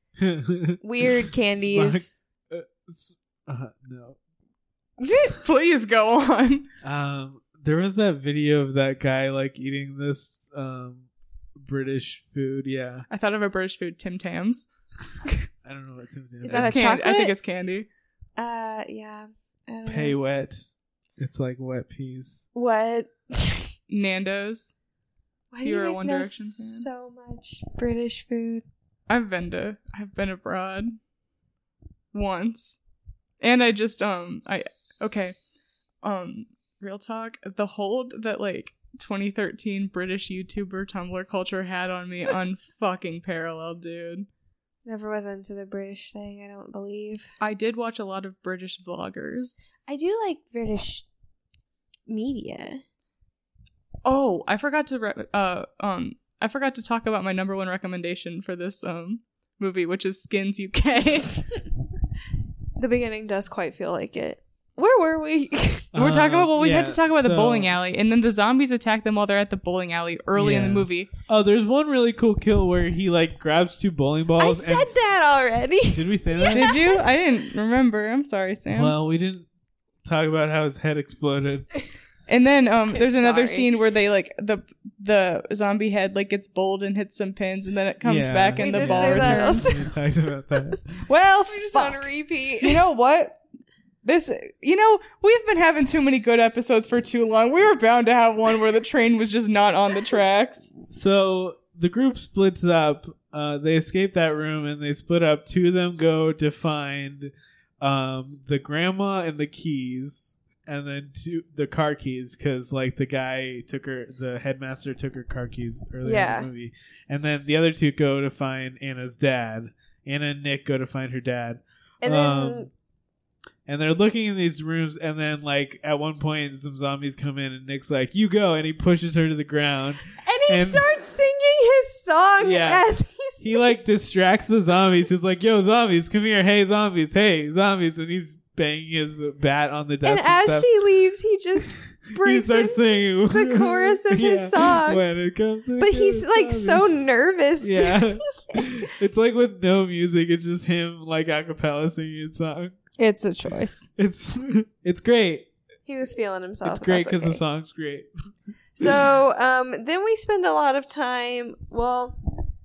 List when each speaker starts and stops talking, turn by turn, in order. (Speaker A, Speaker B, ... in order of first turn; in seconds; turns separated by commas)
Speaker A: 0.2-4.2, Speaker B: 0.8-2.1, Speaker B: 5.0-5.3, Speaker C: 5.2-6.7, Speaker A: 6.8-13.1, Speaker C: 13.1-14.7, Speaker A: 15.6-16.9, Speaker B: 16.4-17.3, Speaker C: 16.5-17.9, Speaker B: 18.4-20.2, Speaker A: 19.9-22.4, Speaker B: 22.5-23.7, Speaker C: 23.9-24.7, Speaker B: 25.5-28.6, Speaker C: 25.6-26.9, Speaker C: 29.1-30.9, Speaker C: 32.1-32.8, Speaker C: 33.4-35.4, Speaker C: 36.0-44.3, Speaker B: 44.9-47.3, Speaker C: 47.4-49.6, Speaker B: 49.9-51.0, Speaker B: 52.1-52.8, Speaker C: 54.0-61.4, Speaker B: 62.8-65.9, Speaker A: 65.9-67.7, Speaker C: 65.9-71.1, Speaker A: 70.3-74.9, Speaker B: 74.4-77.0, Speaker A: 75.9-76.7, Speaker C: 76.5-78.9, Speaker A: 78.7-79.5, Speaker A: 80.0-81.7, Speaker C: 82.3-89.7, Speaker B: 82.9-83.7, Speaker A: 88.0-90.8, Speaker B: 88.6-89.9, Speaker C: 91.1-92.0, Speaker B: 91.5-92.8, Speaker C: 92.6-93.4, Speaker C: 94.0-100.7, Speaker A: 100.9-122.7, Speaker B: 116.0-116.5, Speaker B: 122.0-122.7, Speaker A: 123.7-130.8, Speaker B: 130.2-133.7, Speaker A: 132.4-132.8, Speaker A: 133.4-140.7, Speaker B: 140.0-145.0, Speaker A: 141.6-147.0, Speaker B: 145.8-148.8, Speaker A: 147.6-152.8, Speaker B: 153.0-153.8, Speaker A: 153.9-155.5, Speaker B: 155.9-157.4, Speaker A: 156.6-158.1, Speaker B: 158.8-162.2